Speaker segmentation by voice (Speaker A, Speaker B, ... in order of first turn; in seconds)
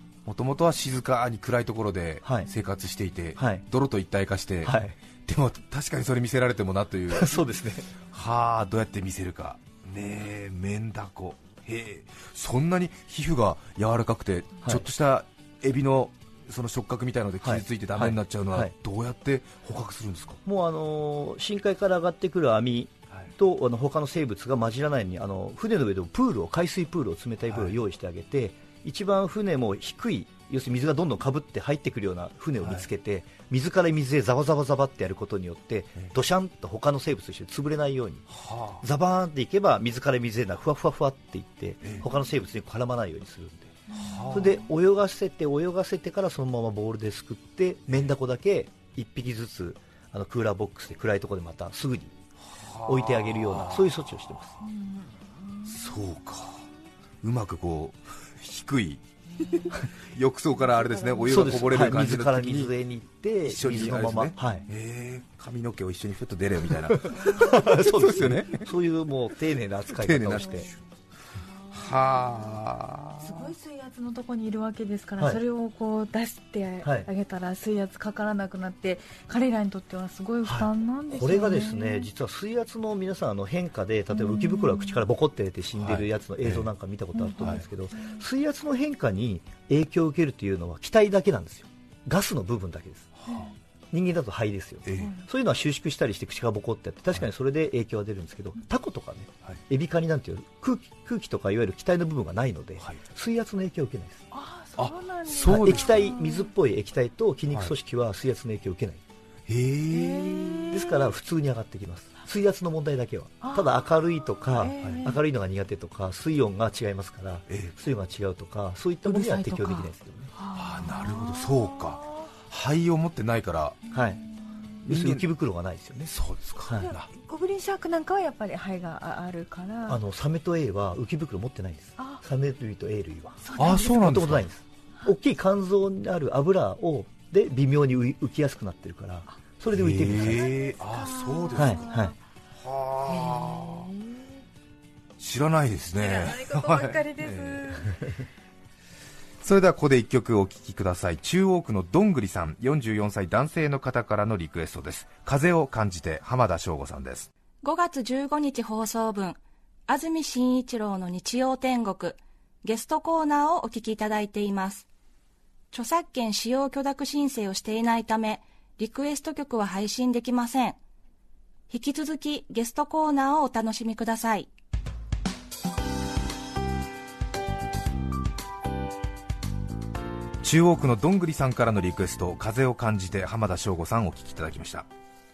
Speaker A: 0.2-7.4, 8.1-20.4, 32.6-32.9, 38.3-38.8, 41.8-42.1, 43.9-44.6, 52.5-53.9, 55.6-56.6, 57.2-62.7, 63.4-68.7, 69.9-70.8, 71.7-73.5, 85.8-86.7, 87.4-87.6, 93.2-93.5, 94.8-95.2, 104.8-106.0, 109.5-110.8, 114.8-115.1, 120.5-123.8, 124.8-125.2, 126.0-127.1, 133.6-134.4, 139.7-141.9, 142.6-143.9, 145.2-147.8, 149.4-157.3, 180.4-184.9
Speaker B: 3.4-3.6, 4.6-4.9, 7.1-7.9, 17.4-18.7, 20.4-38.3, 38.8-43.8, 44.3-52.1, 52.9-54.6, 61.3-64.7, 66.9-70.7, 76.8-77.1, 80.4-93.1, 93.9-104.2, 105.4-109.0, 110.7-120.3, 123.9-124.2, 124.8-126.1, 126.7-126.9, 129.9-140.5, 141.5-142.1
Speaker C: 43.9-44.5, 54.6-55.7, 60.9-61.4, 70.4-70.7, 71.7-72.6, 73.2-82.1, 84.2-84.6, 87.2-88.2, 93.3-93.5, 104.3-106.5, 109.9-111.1, 113.4-113.7, 114.5-115.2, 119.0-122.2, 126.8-130.0, 133.4-134.2, 140.5-142.1, 143.0-144.3, 146.0-148.1
Speaker D: 157.6-164.8, 165.7-170.8, 171.7-174.5